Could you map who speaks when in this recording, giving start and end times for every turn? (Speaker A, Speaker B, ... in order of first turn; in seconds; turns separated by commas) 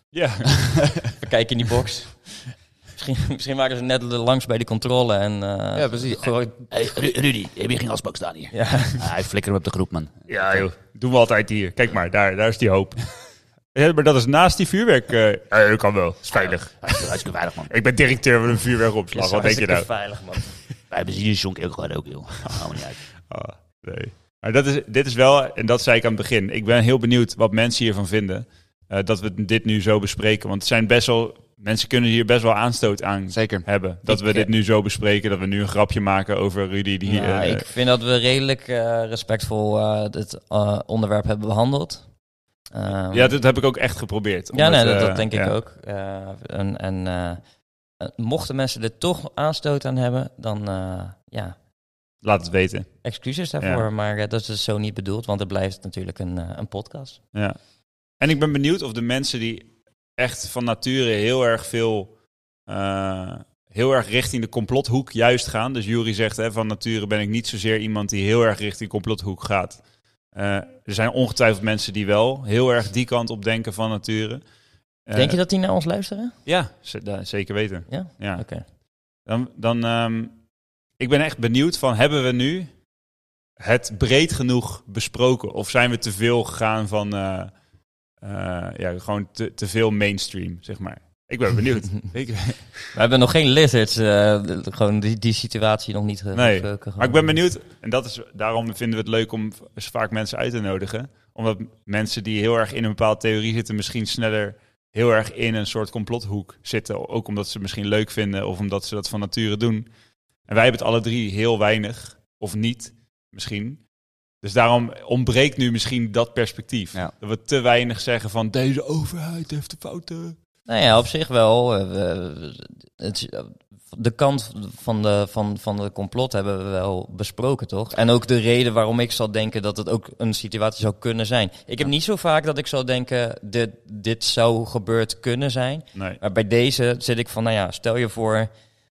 Speaker A: 0.1-1.1, Speaker B: 1.2-2.4, Speaker B: 3.0-6.7, Speaker C: 5.7-10.7, Speaker B: 8.5-9.0, Speaker A: 10.3-13.0, Speaker A: 13.7-17.1, Speaker C: 16.3-17.7, Speaker A: 17.7-19.9, Speaker B: 19.1-20.5, Speaker C: 20.9-23.0, Speaker A: 22.4-37.6, Speaker C: 33.3-33.6, Speaker B: 34.0-34.5, Speaker B: 37.0-42.1, Speaker B: 42.7-43.4, Speaker A: 43.1-45.5, Speaker B: 44.5-47.4, Speaker B: 48.0-51.5, Speaker A: 52.2-53.0, Speaker B: 53.0-57.2, Speaker A: 58.2-62.1, Speaker A: 62.7-69.8, Speaker A: 70.3-74.4, Speaker A: 75.1-75.4, Speaker B: 75.1-76.3, Speaker A: 76.5-78.5, Speaker B: 77.9-78.6, Speaker A: 79.2-80.3, Speaker A: 81.0-82.7, Speaker A: 83.6-87.5, Speaker A: 88.2-92.9, Speaker B: 92.9-97.3, Speaker A: 96.3-109.9, Speaker A: 110.5-113.8, Speaker A: 114.4-120.4, Speaker B: 120.7-138.5